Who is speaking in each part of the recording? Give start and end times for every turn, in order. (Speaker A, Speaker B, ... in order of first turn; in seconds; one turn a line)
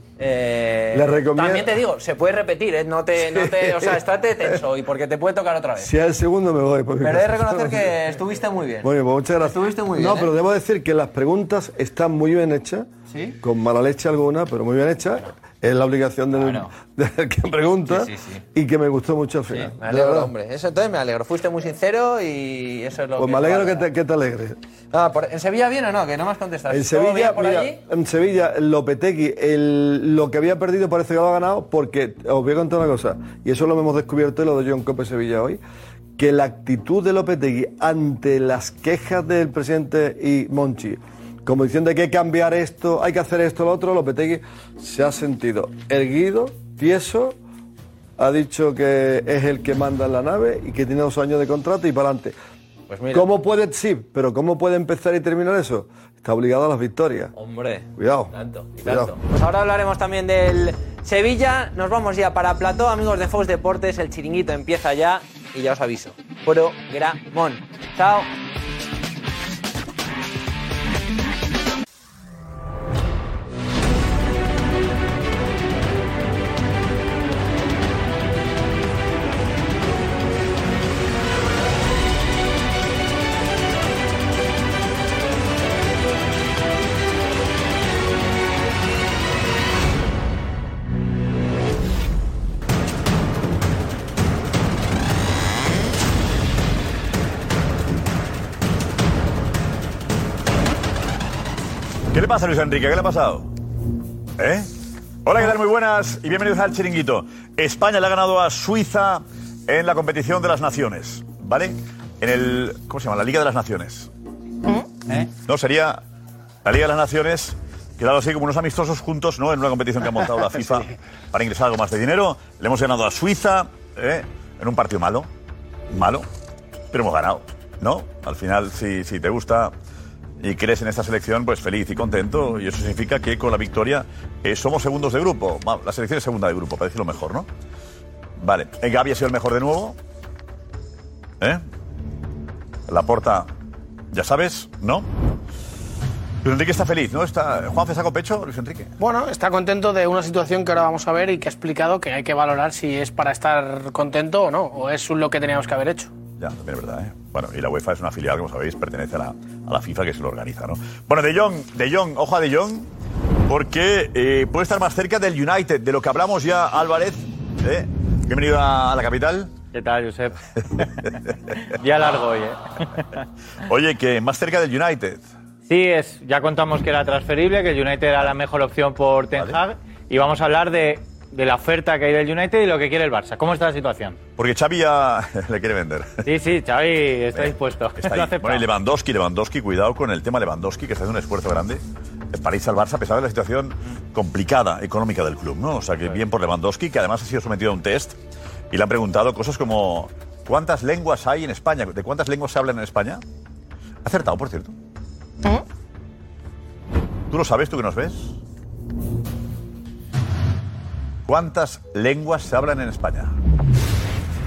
Speaker A: 0.2-5.9
Speaker B: 0.9-1.7
Speaker B: 3.2-4.6
Speaker B: 5.8-7.9
Speaker A: 7.0-8.9
Speaker B: 8.8-12.9
Speaker A: 9.4-10.3
Speaker A: 13.1-13.4
Speaker B: 13.4-20.3
Speaker A: 16.4-16.7
Speaker A: 17.9-18.4
Speaker A: 19.5-23.9
Speaker B: 23.2-24.6
Speaker A: 24.9-27.8
Speaker B: 26.7-35.6
Speaker B: 36.2-47.4
Speaker B: 48.2-52.4
Speaker A: 52.9-53.3
Speaker B: 53.1-57.3
Speaker A: 57.3-68.3
Speaker B: 58.0-59.1
Speaker C: 102.1-103.5
Speaker C: 104.4-104.7
Speaker C: 105.2-114.1
Speaker C: 115.1-116.0
Speaker C: 116.7-125.3
Speaker C: 125.9-126.3
Speaker C: 126.9-129.7
Speaker C: 130.4-137.5
Speaker C: 138.4-140.0
Speaker C: 142.9-143.5
Speaker C: 144.1-145.1
Speaker C: 146.4-148.9
Speaker D: 149.0-156.1
Speaker C: 156.4-162.9
Speaker C: 163.5-169.5
Speaker E: 169.7-170.8
Speaker E: 171.7-173.2
Speaker C: 173.7-175.3
Speaker E: 175.7-184.2
Speaker C: 179.3-179.6
Speaker C: 184.4-186.3
Speaker E: 186.3-188.7
Speaker C: 187.3-198.2
Speaker C: 198.7-203.2
Speaker C: 204.0-204.7
Speaker C: 207.3-208.4
Speaker C: 211.3-213.3